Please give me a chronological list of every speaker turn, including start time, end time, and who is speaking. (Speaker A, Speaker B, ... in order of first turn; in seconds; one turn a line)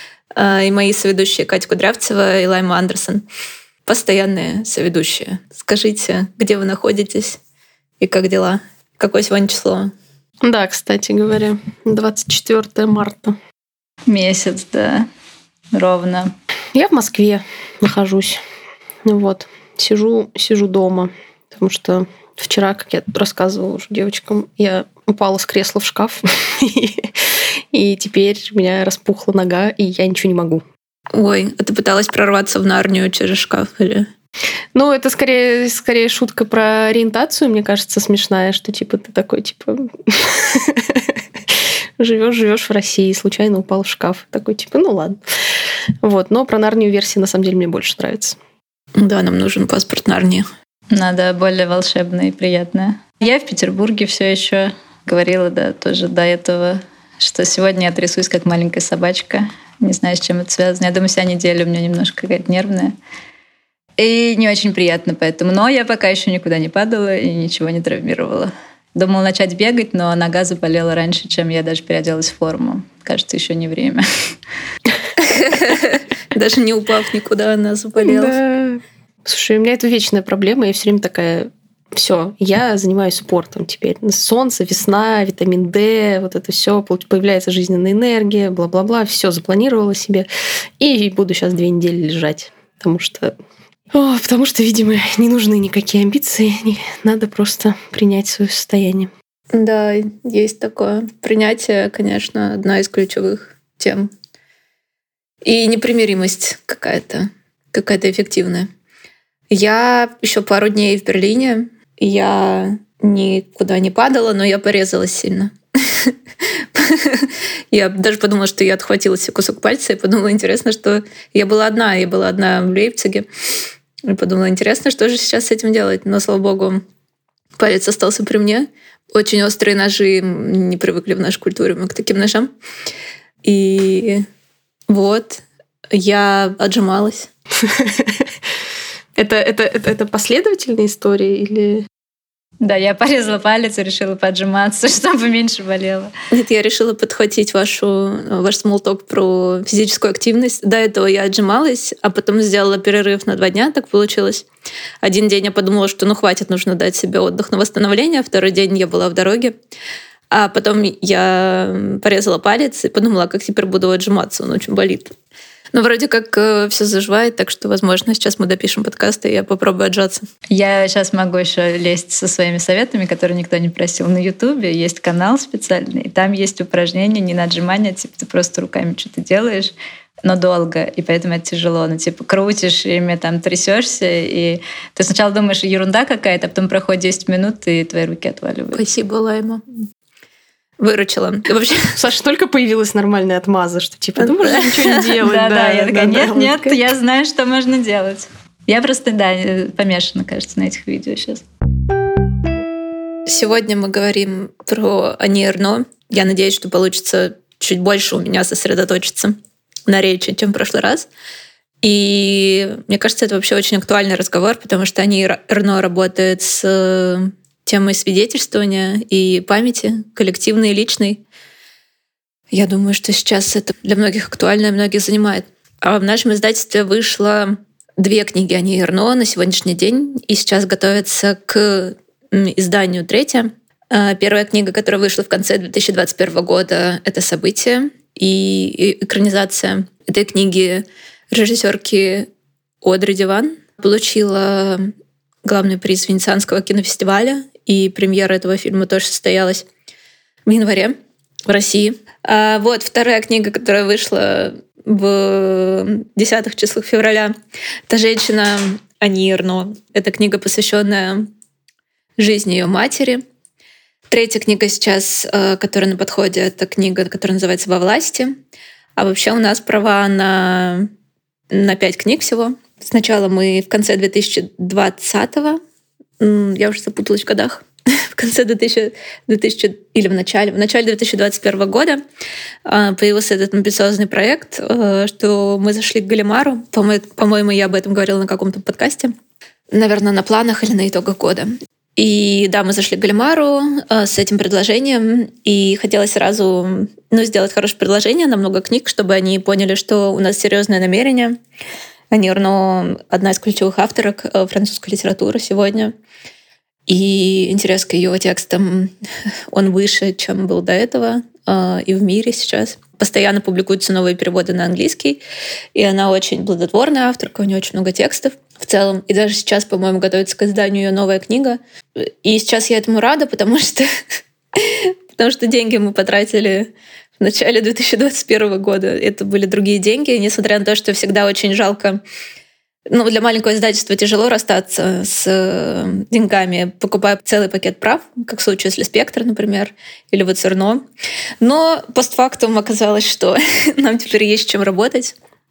Speaker A: 0.3-3.2
Speaker A: 3.9-7.4
Speaker A: 8.0-9.9
Speaker B: 10.4-13.4
Speaker C: 14.1-15.1
Speaker C: 15.7-16.3
Speaker B: 16.7-18.4
Speaker B: 19.1-30.6
Speaker A: 31.1-34.1
Speaker B: 34.7-48.4
Speaker A: 49.0-50.5
Speaker C: 50.9-62.9
Speaker C: 64.0-74.1
Speaker A: 75.2-78.4
Speaker B: 78.0-90.3
Speaker B: 90.8-93.4
Speaker B: 93.9-99.1
Speaker A: 99.5-104.1
Speaker A: 105.4-108.7
Speaker A: 109.5-123.3
Speaker A: 124.0-126.8
Speaker A: 127.6-132.5
Speaker A: 133.4-134.3
Speaker A: 134.9-137.3
Speaker B: 137.6-138.3
Speaker B: 139.2-141.9
Speaker C: 142.6-146.1
Speaker A: 146.3-154.5
Speaker A: 155.0-159.6
Speaker A: 160.3-165.1
Speaker A: 165.7-170.2
Speaker C: 170.5-188.8
Speaker A: 188.7-189.8
Speaker A: 190.8-192.0
Speaker B: 191.9-196.8
Speaker A: 194.2-195.1
Speaker C: 195.2-201.4
Speaker A: 203.3-209.4
Speaker A: 209.9-211.1
Speaker A: 211.8-221.2
Speaker A: 222.5-242.3
Speaker A: 242.8-244.9
Speaker A: 245.4-249.7
Speaker A: 250.5-250.9
Speaker A: 251.5-257.4
Speaker A: 257.9-261.3
Speaker A: 262.2-263.2
Speaker A: 264.1-268.4
Speaker A: 269.0-270.9
Speaker A: 271.5-275.6
Speaker A: 276.2-282.0
Speaker A: 282.7-289.1
Speaker A: 289.7-301.4
Speaker A: 302.1-305.9
Speaker A: 306.9-308.9
Speaker A: 309.5-315.2
Speaker A: 315.8-323.9
Speaker A: 324.6-332.0
Speaker A: 332.9-340.8
Speaker A: 341.4-345.1